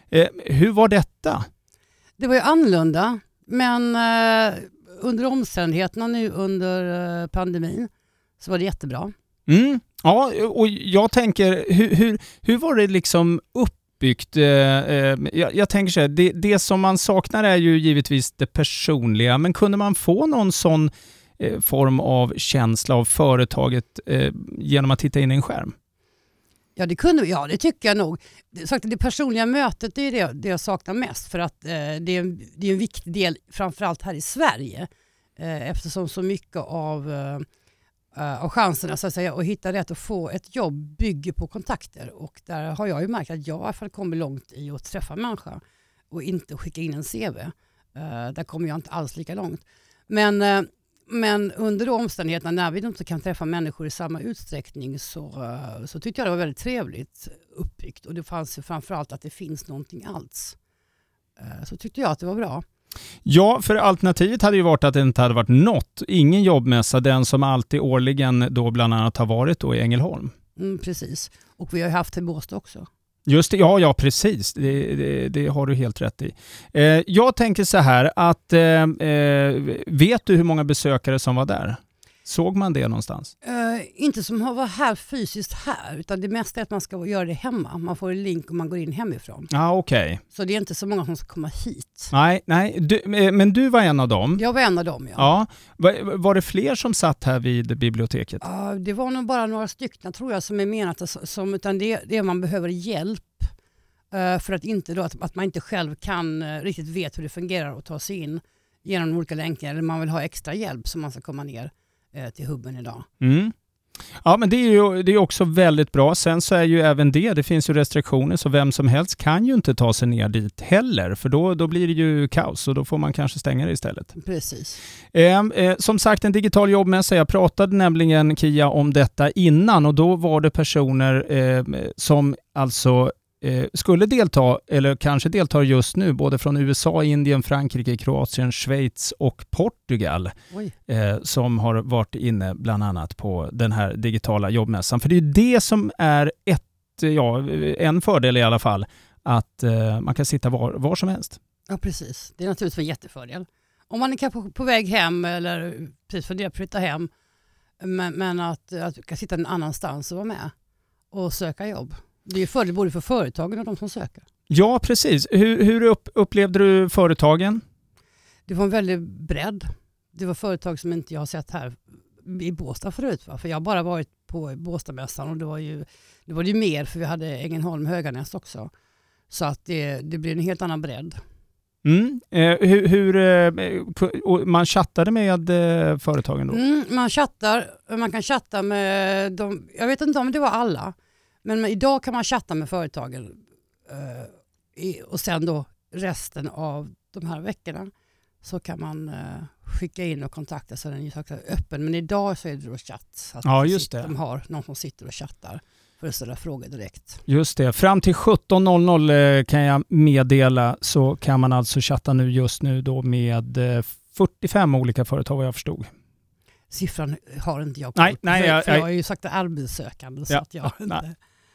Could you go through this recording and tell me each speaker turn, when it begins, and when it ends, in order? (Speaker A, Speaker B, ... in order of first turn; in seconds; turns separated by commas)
Speaker A: 0.1-1.4, Speaker B: 2.2-9.1, Speaker A: 9.5-25.7, Speaker B: 26.8-37.5, Speaker B: 38.1-60.5, Speaker B: 61.4-62.6, Speaker A: 63.2-70.3, Speaker B: 70.5-72.9, Speaker A: 73.3-83.3, Speaker B: 83.4-89.5, Speaker A: 89.5-90.2, Speaker B: 90.3-92.1, Speaker A: 92.1-94.4, Speaker B: 94.3-95.3, Speaker A: 95.2-98.4, Speaker B: 98.4-103.5, Speaker B: 104.1-113.0, Speaker A: 113.2-113.5, Speaker A: 114.2-124.1, Speaker B: 124.2-124.8, Speaker A: 125.1-140.3, Speaker A: 140.9-151.4, Speaker B: 151.7-157.1, Speaker B: 157.8-160.5, Speaker B: 161.1-164.2, Speaker A: 164.5-167.6, Speaker B: 168.5-178.7, Speaker B: 179.3-181.2, Speaker A: 181.8-186.6, Speaker B: 186.5-197.9, Speaker B: 198.4-207.2, Speaker A: 203.4-204.1, Speaker A: 207.3-215.9, Speaker B: 216.7-221.2, Speaker A: 217.9-218.8, Speaker A: 220.3-221.0